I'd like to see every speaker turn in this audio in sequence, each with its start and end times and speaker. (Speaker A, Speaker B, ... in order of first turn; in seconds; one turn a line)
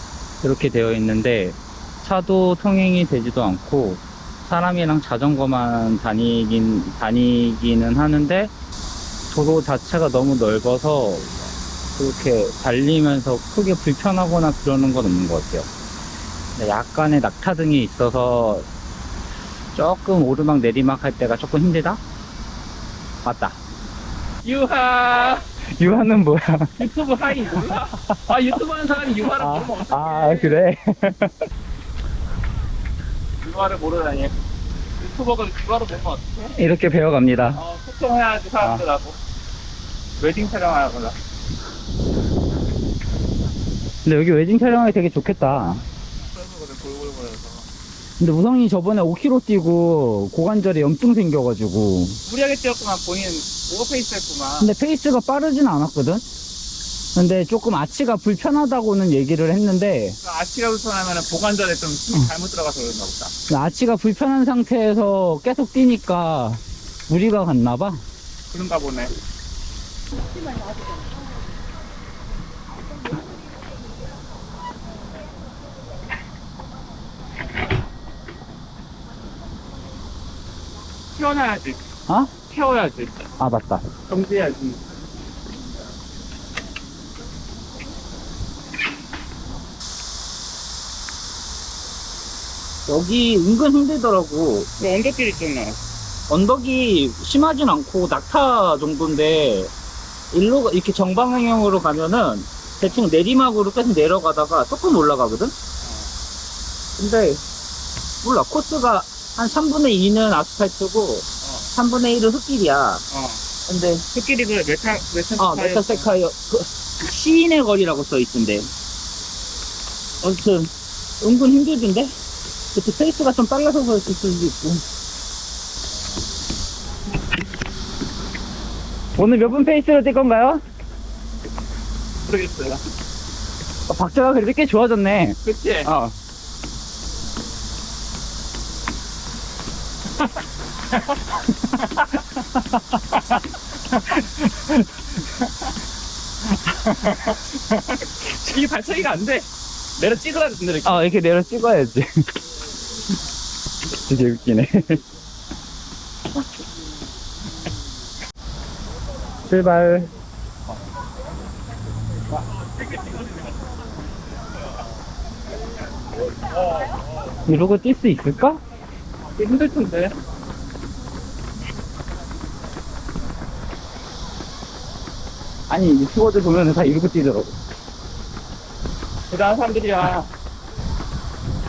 Speaker A: 0.4-8.5
Speaker A: 9.3-15.7
Speaker A: 16.6-18.7
Speaker A: 19.7-22.0
Speaker A: 23.2-23.6
Speaker B: 24.4-25.4
Speaker A: 25.7-26.7
Speaker B: 26.8-30.6
Speaker A: 29.4-31.4
Speaker B: 33.4-34.3
Speaker B: 35.0-36.5
Speaker A: 36.5-37.6
Speaker B: 37.5-39.2
Speaker B: 40.2-41.2
Speaker A: 44.0-45.8
Speaker B: 46.3-47.7
Speaker A: 48.2-52.2
Speaker B: 52.3-54.7
Speaker A: 54.6-56.2
Speaker A: 57.1-60.2
Speaker B: 60.2-63.3
Speaker A: 63.5-68.0
Speaker B: 68.5-69.1
Speaker B: 81.2-81.8
Speaker A: 82.1-82.3
Speaker B: 82.4-83.2
Speaker A: 83.4-83.9
Speaker B: 84.1-84.8
Speaker A: 92.9-94.7
Speaker B: 94.8-95.8
Speaker A: 96.3-99.7
Speaker A: 100.3-105.5
Speaker B: 105.8-106.1
Speaker A: 107.0-107.4
Speaker A: 108.2-113.0
Speaker B: 111.4-111.7
Speaker B: 113.1-113.4
Speaker A: 113.7-114.0
Speaker B: 114.1-116.1
Speaker A: 115.4-118.7
Speaker A: 120.2-120.7
Speaker A: 121.2-122.1
Speaker A: 122.7-124.8
Speaker A: 129.2-130.6
Speaker B: 132.2-132.8
Speaker A: 133.9-136.2
Speaker B: 135.4-135.9
Speaker B: 146.9-149.5
Speaker B: 150.0-151.1
Speaker A: 150.8-152.1
Speaker A: 153.9-155.0
Speaker A: 159.4-160.1
Speaker B: 162.3-163.6
Speaker B: 166.4-167.0
Speaker A: 167.4-168.6
Speaker B: 169.2-170.2
Speaker A: 175.7-177.5
Speaker B: 179.3-180.3